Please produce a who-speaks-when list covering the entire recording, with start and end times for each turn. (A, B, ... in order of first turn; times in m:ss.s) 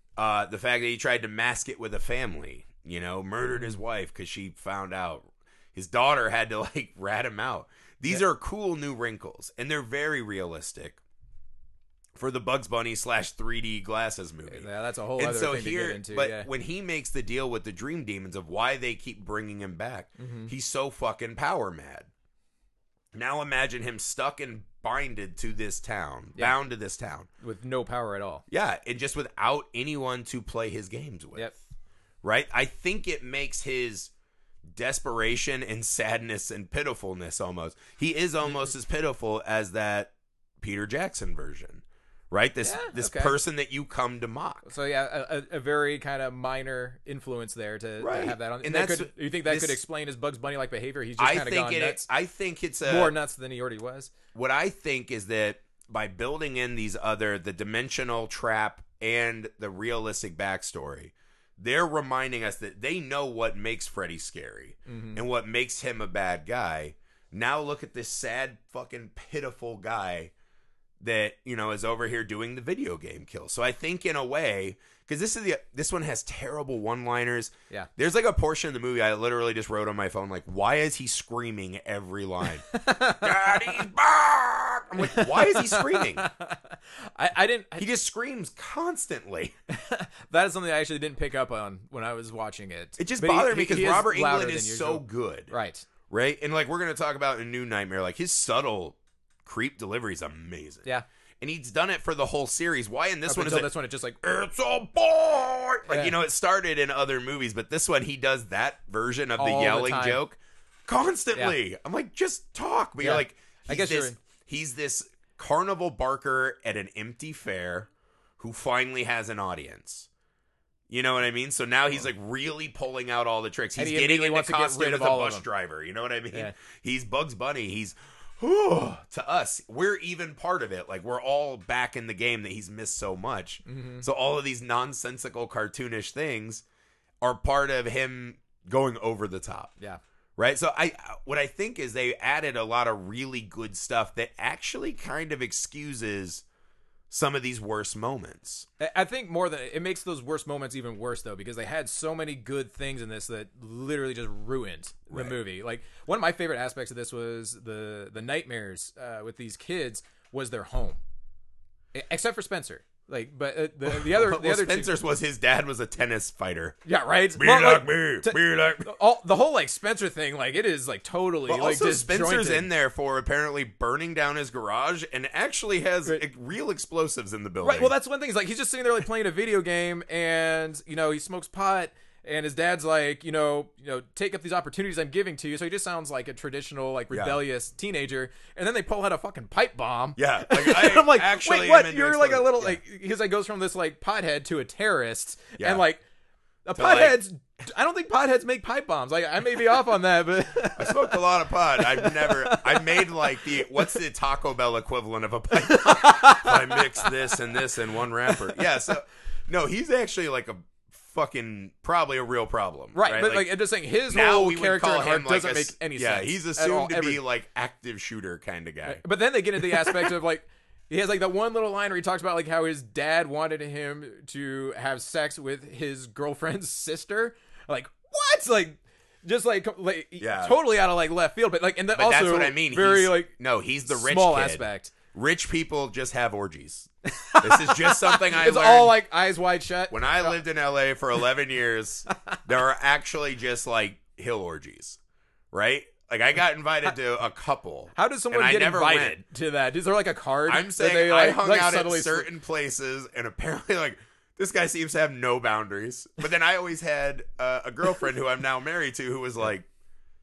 0:00.2-0:11.0 A
0:12.2-0:22.1 A
0:14.5-0:16.5 B
0:20.2-0:20.5 B
0:23.1-0:27.3 A
0:27.4-0:28.4 B
0:28.5-0:31.5 A
0:32.2-0:34.1 A
0:34.7-0:44.6 A
0:42.6-0:43.4 B
0:44.6-0:52.0 B
0:48.0-0:49.8 A
0:51.2-0:53.1 A
0:52.8-0:54.1 B
0:54.3-1:10.3 A
1:04.9-1:05.2 B
1:11.0-1:26.3 A
1:22.6-1:23.8 B
1:25.0-1:27.9 B
1:27.8-1:29.5 A
1:29.7-1:35.8 B
1:33.0-1:35.5 A
1:36.1-1:40.9 A
1:41.4-1:43.7 A
1:43.3-1:44.2 B
1:44.2-2:00.1 A
1:45.9-1:46.1 B
1:49.4-1:50.2 B
1:53.0-1:54.2 B
2:00.9-2:16.6 A
2:03.8-2:05.4 B
2:13.6-2:14.0 B
2:17.2-2:19.7 A
2:20.4-2:26.4 A
2:27.1-2:28.7 A
2:28.8-2:41.0 B
2:41.9-2:44.9 B
2:43.8-2:46.8 A
2:46.8-2:52.7 B
2:47.4-2:48.9 A
2:51.5-2:57.9 A
2:57.6-3:16.0 B
3:07.1-3:07.4 A
3:10.2-3:12.8 A
3:15.6-3:15.8 A
3:16.6-3:21.2 B
3:16.7-3:17.2 A
3:20.8-3:33.6 A
3:21.7-3:24.0 B
3:25.5-3:27.6 B
3:28.3-3:28.6 B
3:32.9-3:37.2 B
3:34.1-3:39.0 A
3:38.8-3:53.3 B
3:39.6-3:40.1 A
3:50.2-3:50.6 A
3:51.9-3:59.0 A
3:53.9-3:54.9 B
3:57.0-4:00.4 B
3:59.9-4:05.0 A
4:05.5-4:09.2 A
4:07.9-4:12.3 B
4:10.5-4:19.7 A